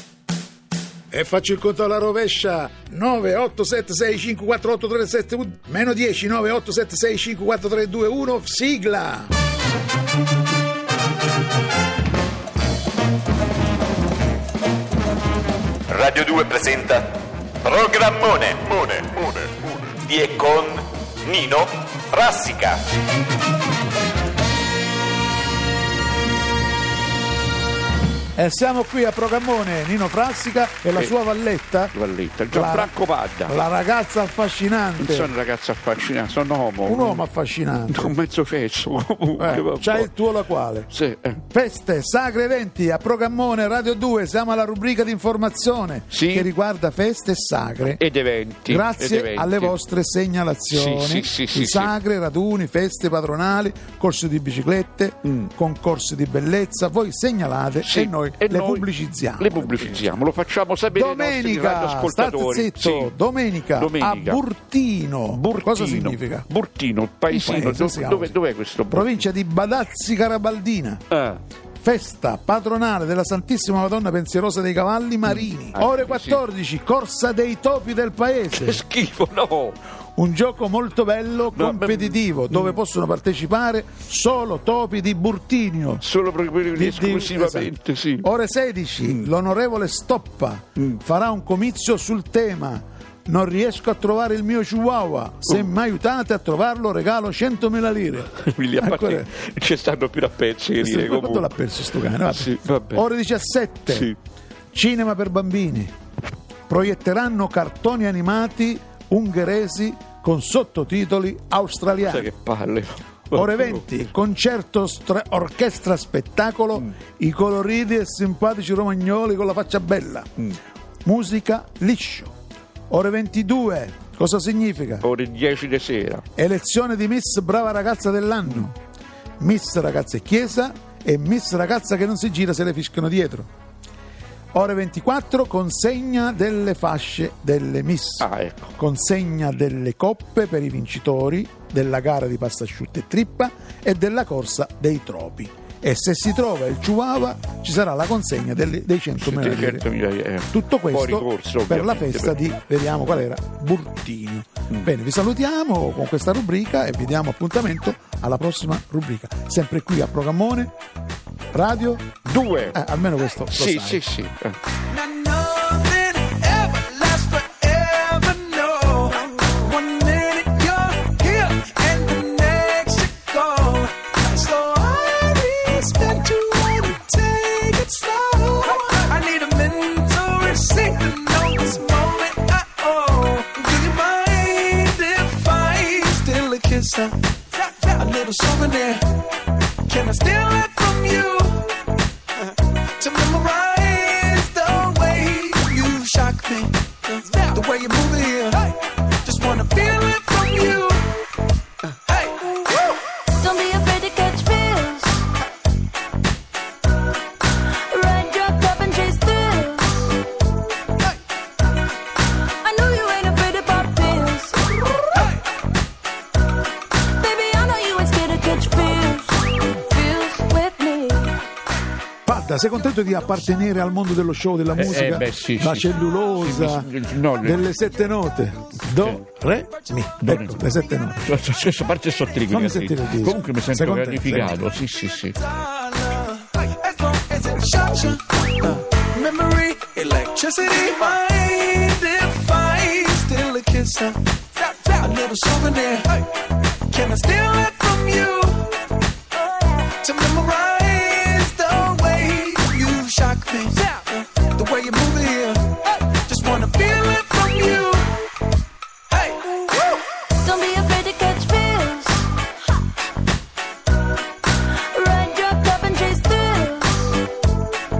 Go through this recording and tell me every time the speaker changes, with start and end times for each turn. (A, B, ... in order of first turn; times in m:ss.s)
0:01.1-0:09.3 A
0:15.9-0:22.8 B
0:28.4-0:31.9 A
0:31.9-0:33.6 C
0:32.5-0:32.9 A
0:33.5-0:35.3 A
0:35.0-0:37.3 C
0:36.9-0:38.1 A
0:37.9-0:40.1 C
0:39.4-0:40.9 A
0:40.9-0:41.4 C
0:41.5-0:48.0 A
0:46.1-0:46.5 C
0:47.8-0:49.8 C
0:48.7-1:00.1 A
0:50.7-0:51.9 C
0:55.2-0:55.5 C
0:57.8-1:03.1 C
1:00.9-1:06.5 A
1:03.7-1:04.4 C
1:05.3-1:09.3 C
1:07.3-1:08.3 A
1:08.9-1:11.0 A
1:11.1-1:11.4 C
1:11.8-1:18.8 A
1:15.3-1:16.4 C
1:18.5-1:19.8 C
1:20.2-1:26.0 A
1:21.5-1:22.8 C
1:26.0-1:28.3 C
1:26.7-1:39.3 A
1:35.4-1:35.7 C
1:38.3-1:41.7 C
1:40.8-1:44.1 A
1:42.3-1:43.1 C
1:43.9-1:44.2 C
1:44.7-1:45.9 A
1:46.7-1:52.3 A
1:52.0-1:54.1 C
1:53.3-2:00.3 A
2:01.0-2:02.3 A
2:02.9-2:05.0 A
2:05.0-2:06.2 C
2:06.4-2:08.8 A
2:09.4-2:13.5 A
2:14.5-2:18.3 A
2:18.2-2:18.8 C
2:18.8-2:29.9 A
2:29.2-2:32.4 C
2:30.5-2:40.7 A
2:41.5-2:42.1 A
2:42.2-2:42.8 C
2:42.7-2:44.0 A
2:43.5-2:44.6 C
2:44.9-3:09.1 D
3:09.9-3:11.8 D
3:13.0-3:21.2 D
3:22.1-3:23.0 D
3:23.3-3:25.3 E
3:27.8-3:30.2 E
3:32.6-3:35.2 E
3:37.1-3:41.4 E
3:42.3-3:46.9 A
3:44.7-3:47.7 C
3:47.4-3:51.2 A
3:50.2-3:50.6 C
3:51.2-3:55.4 C
3:52.5-3:54.6 A
3:55.7-4:06.3 D
4:06.9-4:08.8 D
4:10.0-4:18.2 D
4:19.1-4:19.7 D
4:20.3-4:22.3 E
4:24.9-4:27.2 E